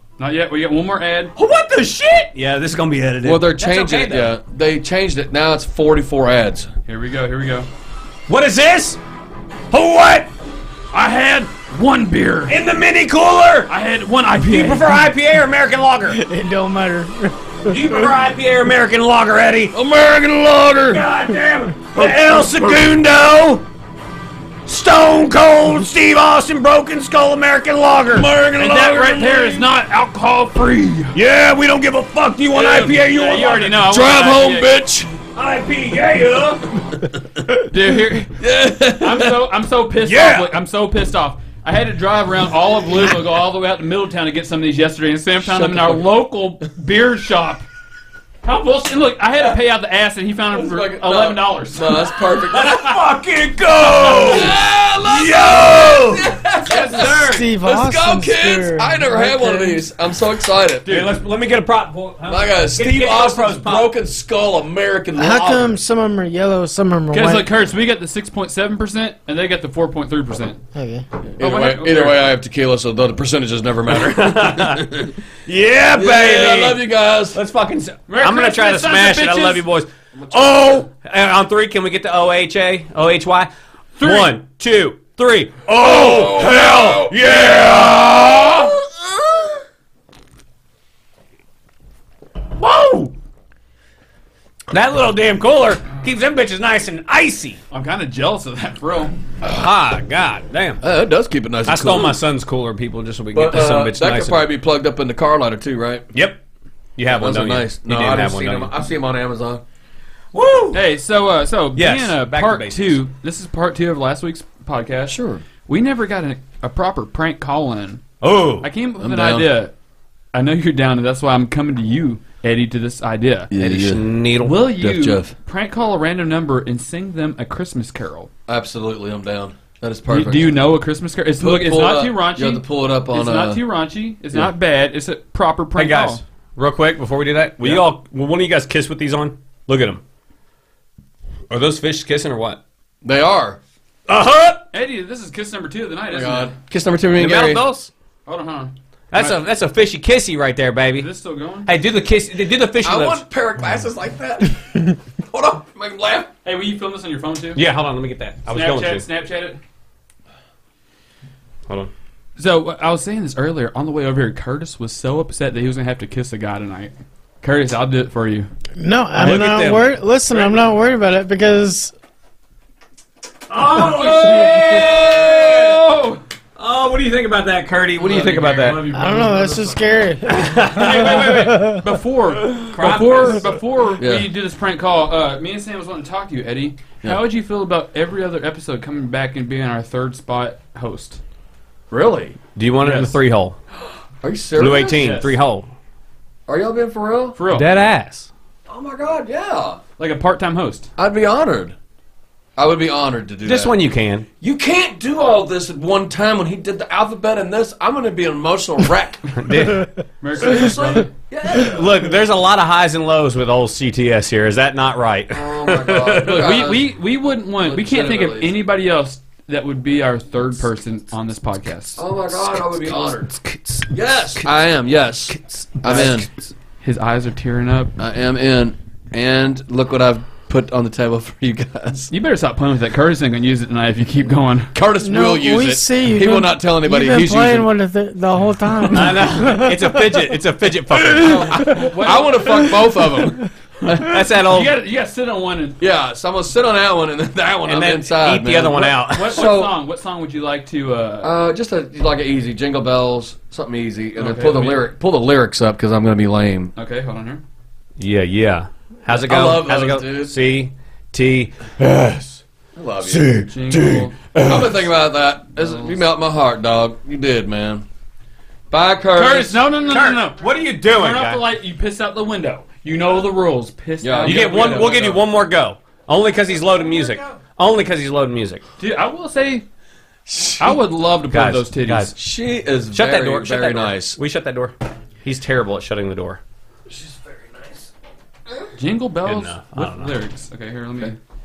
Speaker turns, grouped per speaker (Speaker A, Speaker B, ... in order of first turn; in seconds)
Speaker A: 0.2-1.3, 6.9-7.7, 10.9-12.6, 13.7-15.0, 28.6-31.1, 32.5-34.7, 37.6-38.4, 38.9-47.6, 48.4-52.1, 54.1-54.5, 60.8-61.1, 67.1-70.6, 71.4-72.3, 78.1-79.6, 84.0-84.3, 92.7-93.0, 97.7-99.1, 110.7-118.0, 118.6-119.7, 120.3-123.5, 124.4-128.3, 130.1-136.2, 144.7-146.5, 148.2-149.4, 150.9-151.7, 156.4-157.6, 158.5-159.6, 162.4-168.5, 173.7-176.2, 178.0-180.0, 180.5-191.2, 192.8-193.1, 194.8-195.3, 197.3-197.7, 200.0-200.9, 210.2-211.1, 216.2-222.0, 226.8-227.9, 232.1-234.7, 241.2-242.8, 244.0-245.8, 249.0-251.3, 254.2-254.9, 256.8-257.4, 263.4-264.2, 265.6-265.9, 269.1-275.2, 278.8-279.6, 280.6-282.1, 288.8-291.2
Speaker B: 1.4-4.3, 8.3-9.0, 9.7-10.3, 12.5-13.7, 14.4-16.2, 17.6-19.8, 20.9-23.6, 24.6-28.3, 31.1-33.8, 35.3-36.8, 40.0-40.6, 52.4-57.5, 60.9-63.9, 73.9-74.9, 75.5-88.8, 94.7-97.6, 99.5-100.8, 101.7-104.4, 106.1-106.4, 107.0-108.7, 110.3-110.8, 111.8-113.0, 118.2-118.7, 123.6-124.6, 135.8-140.0, 141.5-142.6, 144.1-144.7, 147.2-147.9, 149.1-151.1, 151.6-153.2, 157.5-159.1, 169.2-170.4, 173.5-175.8, 176.6-178.9, 180.3-181.6, 182.6-183.5, 192.5-193.6, 194.6-195.7, 197.5-198.3, 203.4-204.2, 209.3-209.9, 211.5-216.5, 222.3-224.4, 225.3-226.3, 238.9-241.7, 243.8-244.7, 247.7-249.4, 258.0-262.2, 263.1-264.7, 269.9-271.4, 274.2-278.6, 281.3-282.1, 282.9-286.4, 289.2-290.1
Speaker C: 3.2-6.7, 19.7-21.0, 21.9-23.0, 28.1-29.6, 33.8-35.1, 38.4-39.4, 45.4-46.0, 50.5-53.0, 53.9-60.9, 62.3-65.7, 71.3-75.2, 75.9-77.4, 80.1-80.8, 85.7-88.7, 100.8-102.2, 103.3-106.1, 107.1-109.6, 115.1-115.4, 119.0-119.5, 123.5-124.2, 124.7-125.3, 128.5-130.7, 131.4-133.6, 143.0-143.6, 146.1-147.6, 152.8-156.3, 184.0-184.3, 191.9-192.4, 194.2-195.2, 196.5-197.4, 198.7-199.8, 201.0-201.8, 202.6-203.8, 204.4-209.3, 210.3-212.1, 215.3-216.9, 217.6-218.6, 222.0-223.3, 223.9-226.3, 228.0-232.1, 234.7-237.7, 241.6-243.5, 245.8-249.8, 251.2-256.7, 259.1-260.5, 261.8-262.1, 262.7-263.4, 264.4-267.8, 268.7-269.7, 274.0-275.2, 280.3-280.8, 282.1-284.2, 286.9-287.9
Speaker D: 16.2-18.1, 57.0-59.8, 65.2-67.5, 70.7-71.0, 168.8-171.9, 178.9-181.8, 235.0-240.2